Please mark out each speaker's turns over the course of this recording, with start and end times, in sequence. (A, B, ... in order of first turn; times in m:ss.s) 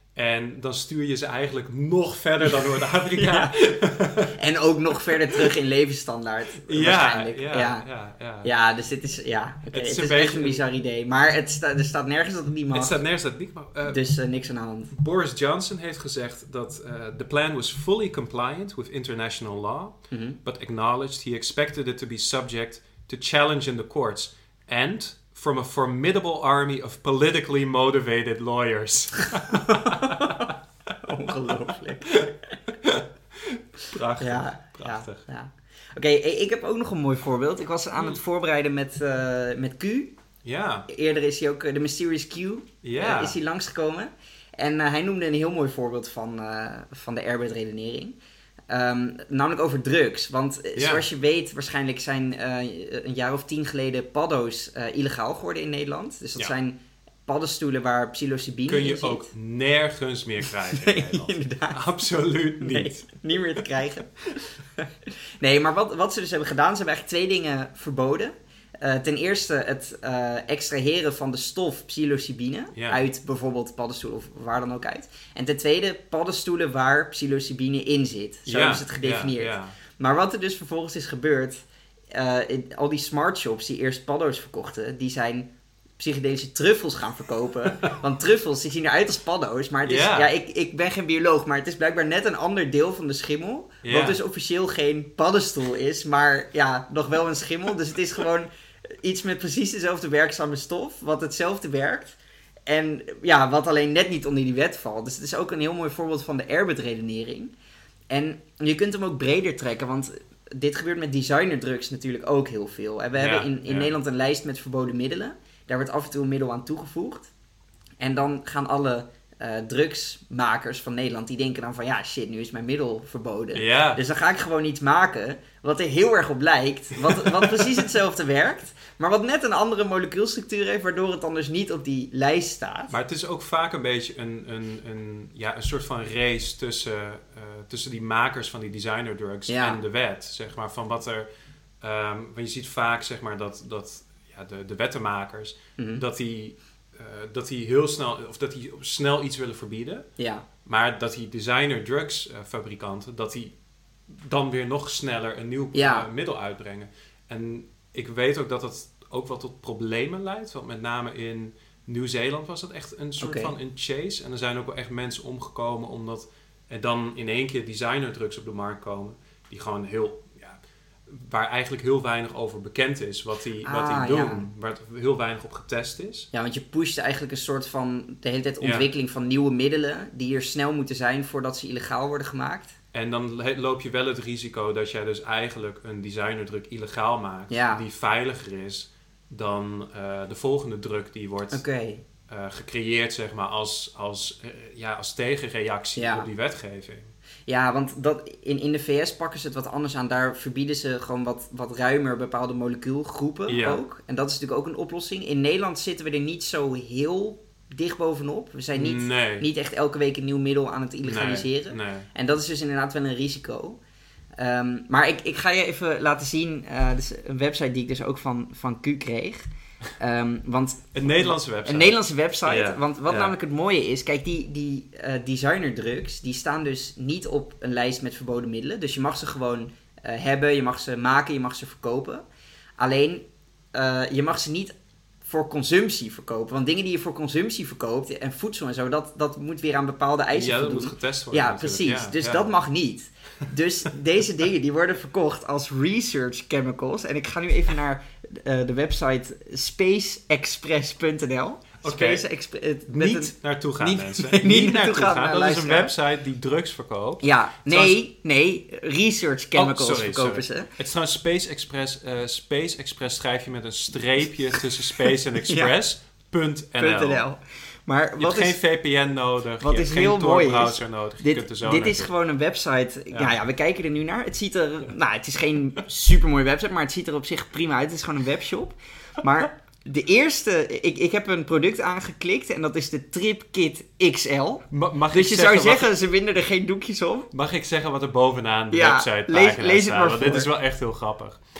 0:00.1-0:04.3 A
0:02.4-0:03.6 B
0:04.3-0:07.8 B
0:06.6-0:08.5 A
0:08.4-0:13.0 B
0:09.7-0:10.6 A
0:12.7-0:14.0 A
0:13.9-0:14.9 B
0:14.9-0:30.5 A
0:20.1-0:20.4 B
0:29.5-0:32.6 B
0:31.7-0:35.2 A
0:34.2-0:40.1 B
0:40.4-0:40.9 A
0:40.9-0:48.2 B
0:42.8-0:43.4 A
0:48.7-0:59.3 B
0:50.8-0:51.0 A
0:58.7-1:03.0 A
1:00.7-1:01.8 B
1:02.6-1:04.1 B
1:05.4-1:38.5 B
1:12.7-1:13.0 A
1:18.4-1:19.8 A
1:29.8-1:30.3 A
1:33.8-1:34.2 A
1:39.0-1:47.5 B
1:48.1-1:57.3 B
1:53.1-1:53.9 A
1:58.0-2:13.0 B
2:03.5-2:04.0 A
2:07.1-2:07.8 A
2:12.9-2:21.2 A
2:19.5-2:19.8 B
2:21.8-2:30.1 A
2:25.8-2:26.0 B
2:30.2-2:30.4 B
2:30.6-2:33.5 A
2:34.1-2:56.3 A
2:35.7-2:36.1 B
2:43.2-2:43.5 B
2:53.6-2:54.4 B
2:56.3-3:02.8 B
2:58.6-2:58.9 A
3:02.9-3:11.6 A
3:07.5-3:07.8 B
3:11.5-3:12.0 B
3:12.3-3:17.1 A
3:16.0-3:16.3 B
3:17.5-3:33.8 B
3:23.5-3:23.8 A
3:28.7-3:29.5 A
3:31.0-3:32.1 A
3:34.4-3:39.4 B
3:40.0-3:52.2 B
3:40.9-3:43.4 A
3:52.8-4:15.9 B
4:00.3-4:02.5 A
4:11.8-4:12.2 A
4:12.9-4:18.0 A
4:17.2-4:20.7 B
4:19.5-4:27.2 A
4:25.4-4:25.7 B
4:26.8-4:28.6 B
4:28.2-4:32.1 A
4:29.6-4:47.3 B
4:33.1-4:33.4 A
4:44.7-4:45.9 A
4:47.3-4:51.4 A
4:48.7-4:50.5 B